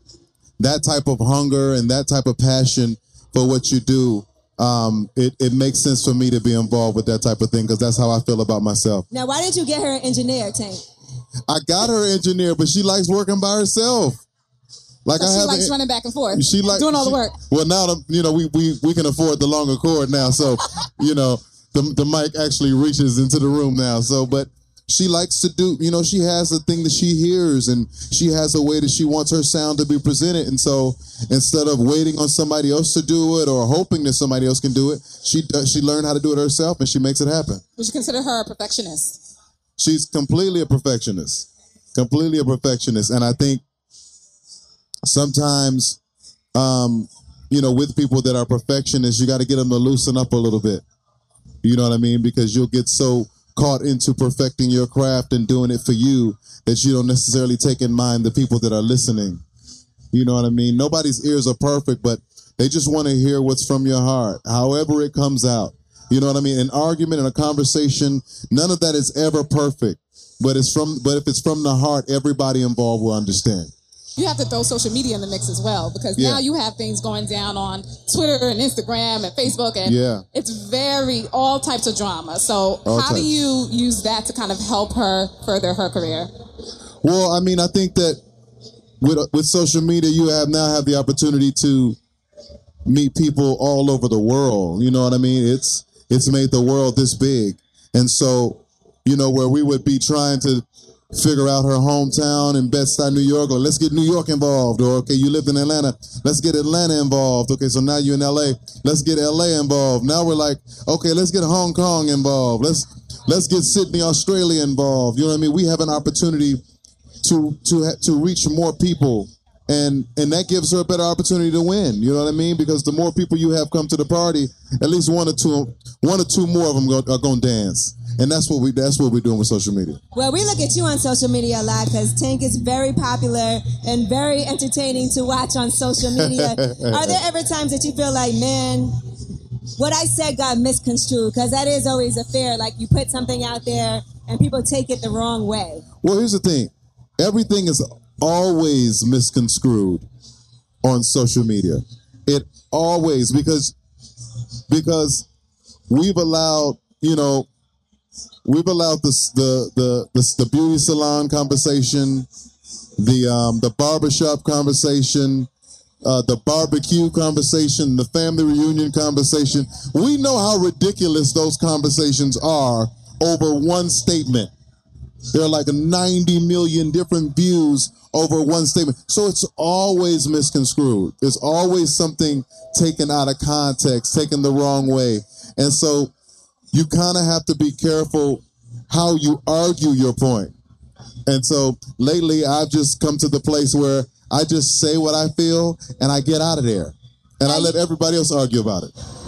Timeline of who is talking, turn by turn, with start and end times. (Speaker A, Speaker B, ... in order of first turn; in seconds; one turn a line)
Speaker A: 0.6-9.1
Speaker B: 9.1-10.8
Speaker A: 11.5-14.2
Speaker A: 15.0-15.8
Speaker C: 15.2-17.4
Speaker A: 16.3-37.6
Speaker C: 37.8-39.2
Speaker A: 39.8-43.6
Speaker A: 45.0-46.0
Speaker A: 46.5-50.8
Speaker A: 51.6-59.4
Speaker A: 60.1-73.7
Speaker C: 74.2-86.3
Speaker A: 76.2-76.4
Speaker A: 79.8-80.2
Speaker A: 82.8-83.3
Speaker A: 87.0-88.2
Speaker A: 89.0-92.0
Speaker A: 92.8-116.6
Speaker A: 117.2-130.0
Speaker B: 130.1-138.9
Speaker A: 136.1-137.2
Speaker B: 139.8-145.8
Speaker A: 146.0-150.0
Speaker A: 150.8-153.7
Speaker A: 154.7-155.3
Speaker A: 155.9-157.5
Speaker A: 158.4-162.3
Speaker A: 163.0-165.5
Speaker A: 166.0-174.5
Speaker A: 175.3-186.1
Speaker A: 186.7-190.5
Speaker A: 191.2-198.9
Speaker B: 197.4-197.8